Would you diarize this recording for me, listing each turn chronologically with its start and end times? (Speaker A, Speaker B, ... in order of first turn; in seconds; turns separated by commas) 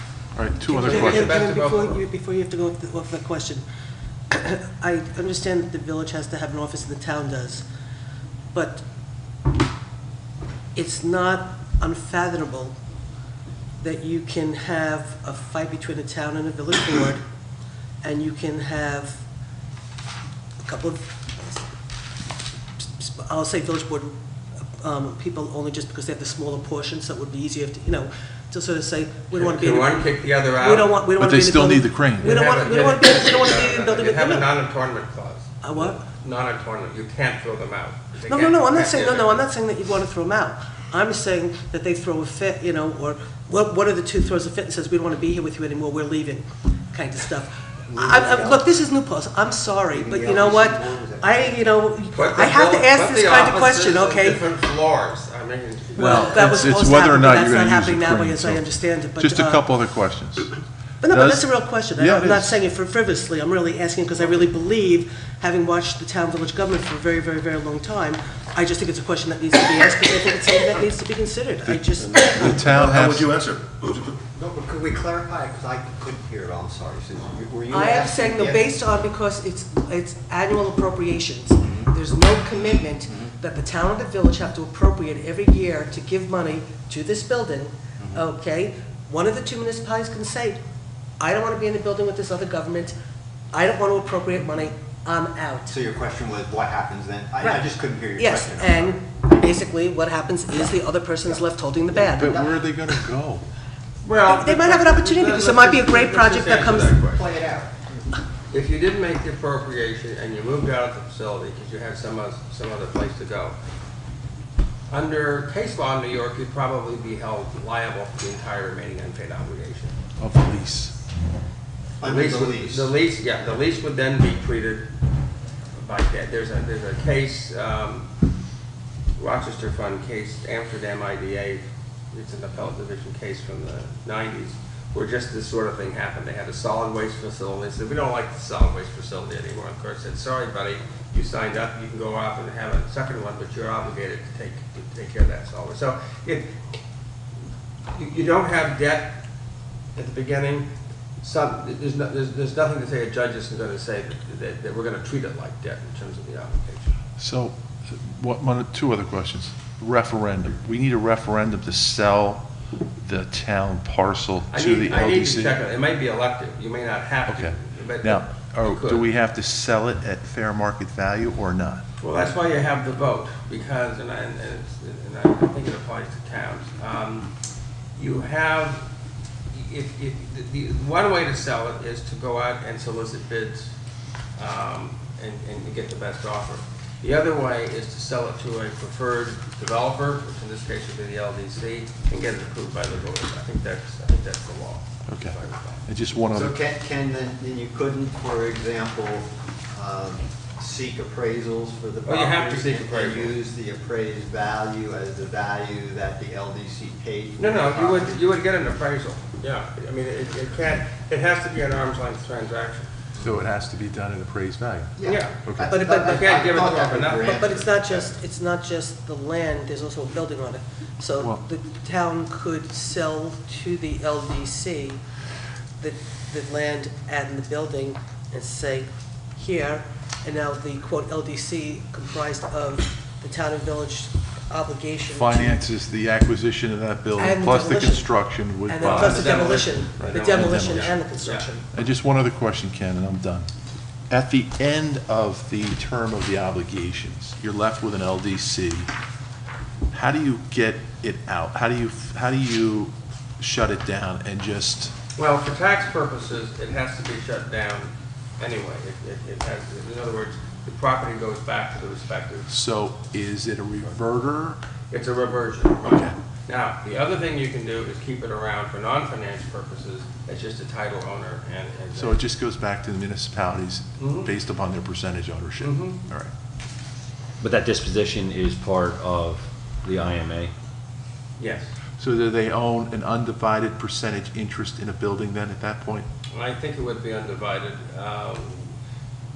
Speaker A: 0.3-1.4, Speaker B: 0.7-3.6, Speaker C: 0.8-2.0, Speaker B: 4.3-7.6, Speaker B: 8.5-8.8, Speaker B: 10.7-12.7, Speaker B: 13.8-17.2, Speaker B: 18.0-19.2, Speaker B: 20.6-21.7, Speaker B: 22.8-24.1, Speaker B: 24.8-34.5, Speaker C: 29.3-30.9, Speaker A: 31.2-32.4, Speaker C: 32.2-39.4, Speaker B: 35.6-36.0, Speaker B: 38.3-54.4, Speaker D: 47.9-48.7, Speaker D: 49.9-51.6, Speaker C: 52.1-56.6, Speaker B: 56.0-59.6, Speaker A: 56.0-60.5, Speaker B: 61.0-72.5, Speaker A: 61.0-62.6, Speaker A: 71.7-73.3, Speaker E: 72.1-74.0, Speaker D: 74.2-78.6, Speaker B: 77.7-90.6, Speaker D: 81.6-81.9, Speaker D: 83.0-83.3, Speaker D: 88.0-88.2, Speaker B: 91.2-92.9, Speaker B: 93.5-95.7, Speaker D: 95.7-98.9, Speaker B: 97.4-102.3, Speaker A: 102.1-103.5, Speaker D: 102.2-102.5, Speaker C: 104.0-107.2, Speaker B: 104.2-106.9, Speaker D: 106.9-108.1, Speaker C: 108.5-113.6, Speaker C: 114.9-119.9, Speaker A: 120.2-121.0, Speaker D: 122.0-122.9, Speaker C: 122.0-124.9, Speaker C: 125.7-128.1, Speaker C: 129.2-146.8, Speaker C: 147.9-149.2, Speaker C: 149.9-150.7, Speaker C: 151.2-156.9, Speaker A: 157.2-162.5, Speaker A: 163.0-165.6, Speaker C: 164.5-169.0, Speaker A: 167.3-171.8, Speaker C: 172.0-177.3, Speaker C: 177.9-178.8, Speaker C: 179.5-183.7, Speaker C: 184.4-195.8, Speaker A: 195.1-196.6, Speaker D: 196.3-208.2, Speaker C: 202.0-203.3, Speaker C: 207.4-212.9, Speaker A: 213.2-215.8, Speaker D: 215.0-218.2, Speaker C: 215.0-217.6, Speaker B: 215.7-216.2, Speaker B: 217.3-225.0, Speaker B: 225.8-235.6, Speaker A: 235.1-239.2, Speaker B: 237.2-241.7, Speaker C: 238.8-241.5, Speaker A: 240.1-241.1, Speaker A: 241.7-243.5, Speaker A: 244.1-248.9, Speaker A: 249.9-254.9, Speaker C: 255.2-262.5, Speaker A: 262.5-264.6, Speaker C: 264.9-272.2, Speaker A: 265.8-266.1, Speaker A: 271.9-276.3, Speaker C: 274.0-274.3, Speaker C: 275.6-276.0, Speaker E: 277.4-280.5, Speaker C: 281.4-281.7, Speaker A: 282.0-286.1, Speaker C: 286.3-288.7